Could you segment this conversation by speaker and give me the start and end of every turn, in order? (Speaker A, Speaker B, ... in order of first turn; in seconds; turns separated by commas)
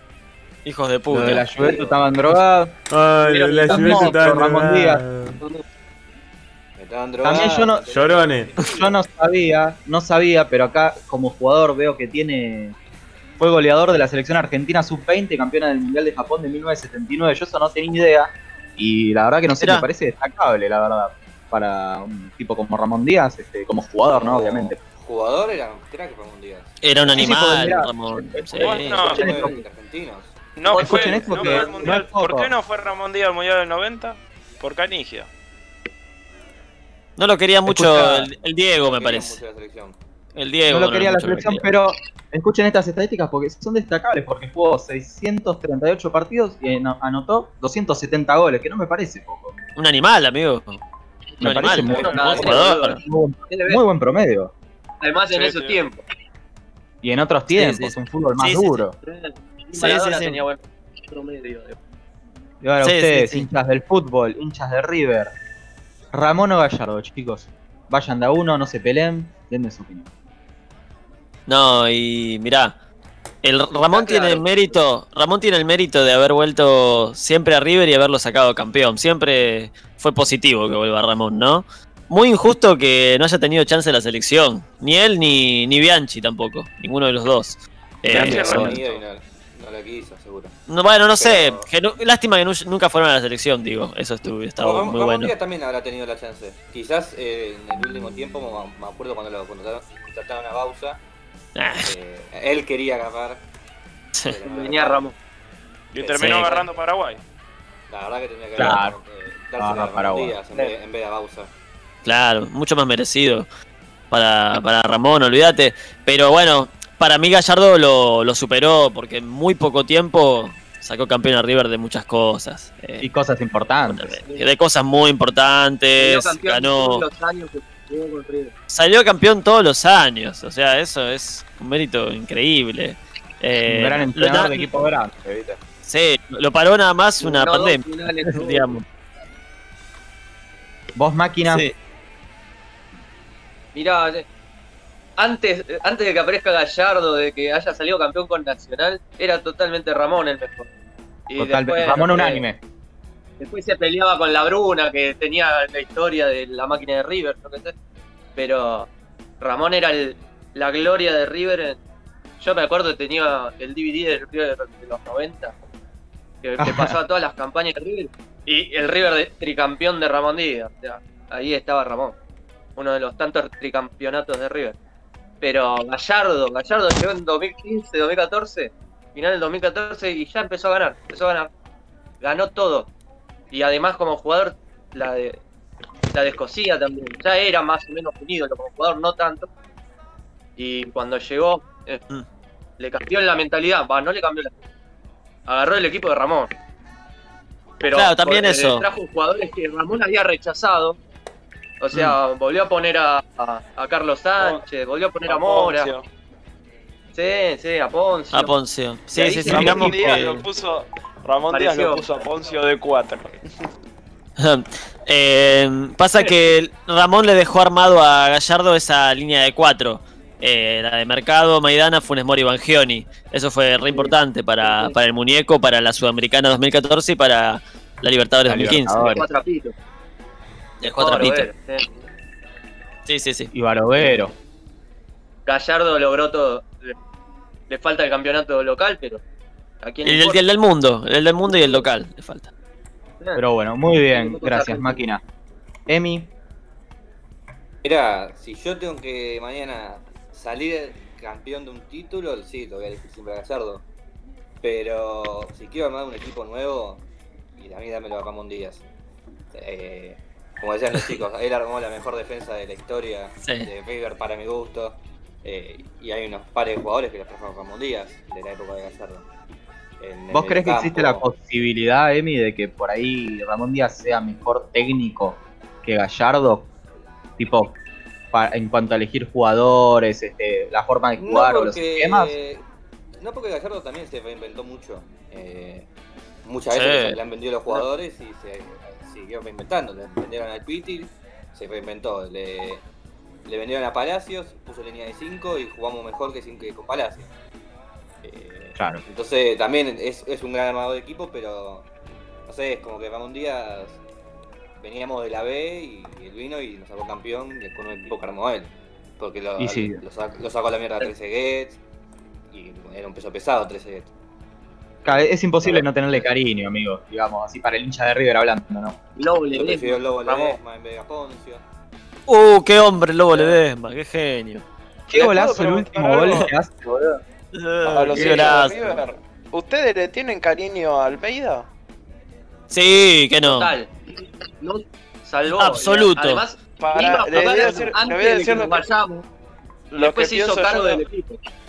Speaker A: 0.6-1.6, Speaker B: 1.1-2.7, Speaker C: 1.6-1.9, Speaker D: 2.9-5.4, Speaker E: 3.2-4.4, Speaker B: 3.7-5.0, Speaker C: 6.8-9.0, Speaker B: 7.2-7.8, Speaker D: 7.4-8.7, Speaker B: 8.6-12.8, Speaker B: 13.4-24.8, Speaker A: 19.6-19.8, Speaker C: 24.1-26.7, Speaker A: 26.8-28.9, Speaker B: 27.0-29.5, Speaker C: 28.6-30.3, Speaker F: 28.6-29.3, Speaker E: 29.1-29.6, Speaker F: 30.6-35.3, Speaker E: 30.7-32.0, Speaker B: 30.7-32.5, Speaker A: 37.2-39.4, Speaker B: 37.6-38.3, Speaker C: 38.8-40.0, Speaker A: 40.3-41.7, Speaker B: 40.7-49.5, Speaker A: 49.8-50.8, Speaker A: 51.4-53.0, Speaker B: 51.4-54.5, Speaker E: 51.6-53.8, Speaker E: 55.0-56.0, Speaker F: 55.3-55.8, Speaker B: 57.0-58.9, Speaker A: 57.5-58.8, Speaker E: 59.0-61.8, Speaker A: 59.7-60.4, Speaker B: 62.6-65.3, Speaker A: 62.8-63.5, Speaker B: 66.1-70.1, Speaker A: 71.5-72.7, Speaker A: 73.4-88.8, Speaker E: 73.9-74.7, Speaker C: 88.1-90.5, Speaker F: 88.1-88.9, Speaker A: 90.7-95.3, Speaker C: 91.2-91.7, Speaker C: 94.6-101.0, Speaker A: 101.5-101.9, Speaker C: 101.8-103.4, Speaker C: 104.2-105.1, Speaker E: 104.4-105.1, Speaker F: 105.9-107.2, Speaker C: 106.1-106.6, Speaker A: 106.1-106.6, Speaker C: 107.9-111.5, Speaker B: 108.5-109.0, Speaker B: 109.6-110.4, Speaker A: 112.0-113.5, Speaker A: 114.1-123.1, Speaker B: 123.0-124.2, Speaker A: 123.9-127.0, Speaker E: 125.9-128.5, Speaker A: 128.7-134.7, Speaker B: 133.6-135.6, Speaker A: 135.8-138.8, Speaker E: 137.2-138.8, Speaker B: 140.9-141.7, Speaker A: 141.5-141.7, Speaker E: 143.7-144.2, Speaker E: 145.2-150.7, Speaker E: 151.3-152.5, Speaker B: 151.3-152.6, Speaker E: 153.4-157.7, Speaker E: 158.3-158.9, Speaker E: 159.4-161.8, Speaker E: 162.4-165.5, Speaker E: 166.4-172.2, Speaker B: 166.6-167.0, Speaker E: 172.8-174.8, Speaker E: 175.4-181.5, Speaker E: 182.2-182.9, Speaker E: 183.5-185.4, Speaker E: 186.1-189.5, Speaker E: 190.6-192.0, Speaker E: 192.8-194.6, Speaker E: 195.4-196.5, Speaker E: 197.8-201.0, Speaker A: 197.9-198.8, Speaker E: 201.8-205.9, Speaker F: 205.2-206.0, Speaker E: 207.1-208.5, Speaker A: 208.3-210.4, Speaker F: 209.1-213.4, Speaker E: 209.2-210.3, Speaker E: 211.5-212.2, Speaker A: 214.4-229.2, Speaker E: 223.9-224.9, Speaker B: 228.5-229.2, Speaker E: 229.0-229.7, Speaker A: 230.8-231.5, Speaker E: 230.8-232.0, Speaker A: 233.1-233.5, Speaker B: 233.5-234.3, Speaker E: 235.4-236.9, Speaker E: 237.7-239.2, Speaker E: 239.8-240.4, Speaker A: 240.0-242.5, Speaker E: 241.4-241.9, Speaker B: 243.3-245.2, Speaker E: 244.1-245.0, Speaker B: 245.9-246.3, Speaker C: 247.8-253.8, Speaker C: 254.6-257.0, Speaker C: 257.6-258.8, Speaker C: 259.5-269.2, Speaker A: 263.4-263.7, Speaker C: 270.0-271.2, Speaker B: 270.3-276.7, Speaker B: 277.4-277.7, Speaker B: 278.3-282.3, Speaker C: 281.2-282.6, Speaker C: 283.2-285.9, Speaker C: 286.4-292.8, Speaker A: 286.7-287.2, Speaker C: 293.4-297.3, Speaker C: 298.2-301.9, Speaker B: 298.8-299.0, Speaker C: 302.5-304.0, Speaker C: 304.8-311.8, Speaker B: 309.6-310.0, Speaker C: 312.5-314.1, Speaker B: 315.0-319.0, Speaker C: 315.1-316.2, Speaker E: 319.1-320.6, Speaker C: 319.5-321.6, Speaker A: 322.3-324.6, Speaker C: 323.3-323.6, Speaker B: 325.1-327.2, Speaker F: 325.1-326.5, Speaker A: 327.5-328.8, Speaker F: 327.8-331.7, Speaker E: 328.2-328.4, Speaker C: 328.4-328.8, Speaker A: 332.7-333.7, Speaker E: 333.4-333.9, Speaker E: 334.6-339.2, Speaker A: 335.5-336.4, Speaker F: 336.8-338.9, Speaker E: 339.9-341.4, Speaker F: 339.9-341.0